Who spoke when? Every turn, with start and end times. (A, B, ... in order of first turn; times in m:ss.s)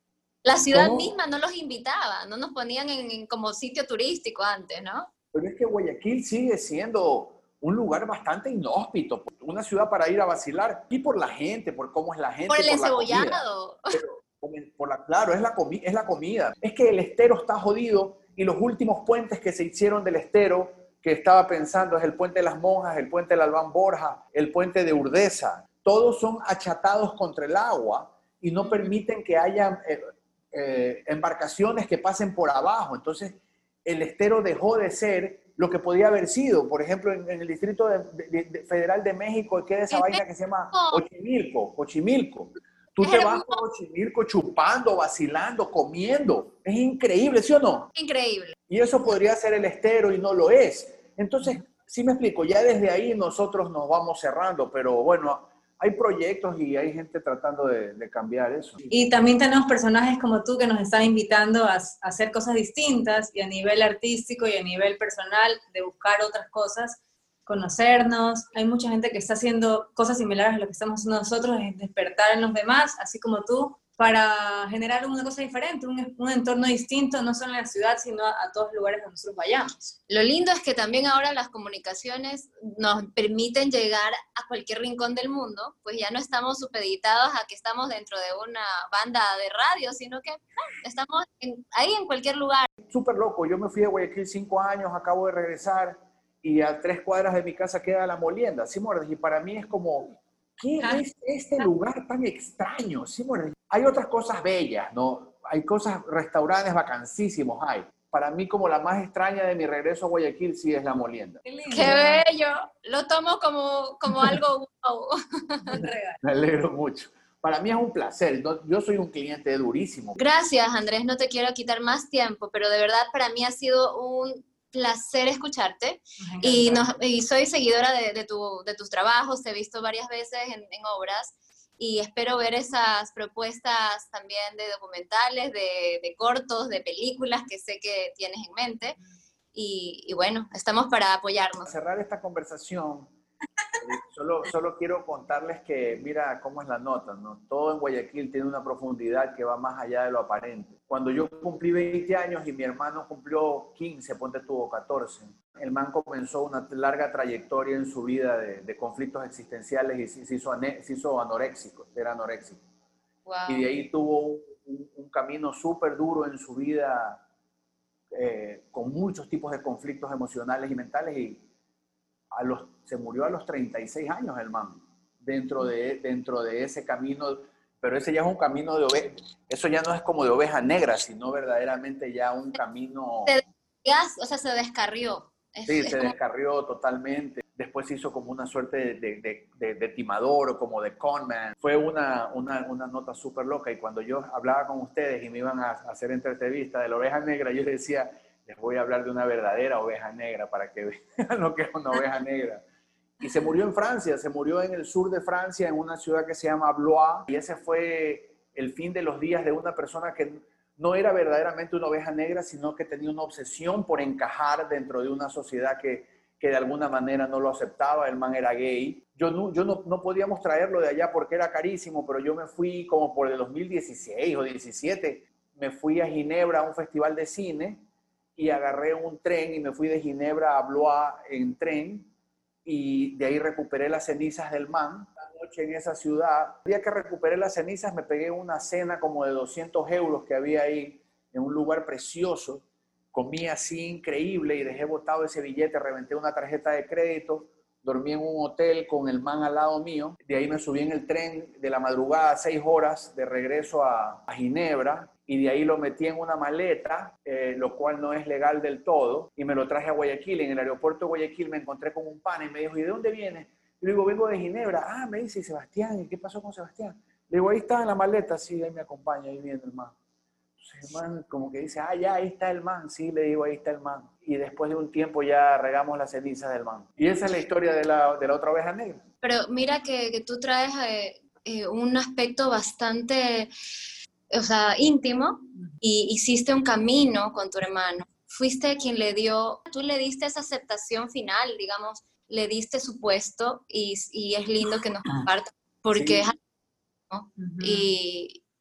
0:00.4-0:05.1 A
0:00.7-0:01.1 B
0:05.3-0:47.9 B
0:12.5-0:14.0 A
0:39.9-0:41.0 A
0:43.0-0:43.6 A
0:47.9-0:48.6 A
0:48.7-0:58.8 B
0:58.9-1:19.9 C
1:20.1-1:32.7 A
1:32.9-1:51.9 B
1:51.4-1:52.2 C
1:51.7-1:55.8 A
1:55.7-1:56.2 C
1:56.2-2:00.2 B
2:00.2-2:19.0 A
2:06.2-2:06.9 C
2:19.5-2:21.6 A
2:21.6-2:23.1 B
2:23.8-2:42.6 B
2:43.2-2:43.7 A
2:43.5-2:47.2 B
2:48.1-2:51.4 B
2:52.3-3:03.4 B
3:03.2-3:06.1 A
3:05.7-3:22.6 B
3:23.2-3:47.8 B
3:48.4-3:52.1 B
3:52.6-4:29.9 B
4:30.6-4:39.0 B
4:39.2-4:43.5 A
4:44.3-4:56.4 A
4:55.9-4:56.2 B
4:57.1-4:58.4 A
4:57.4-4:57.9 C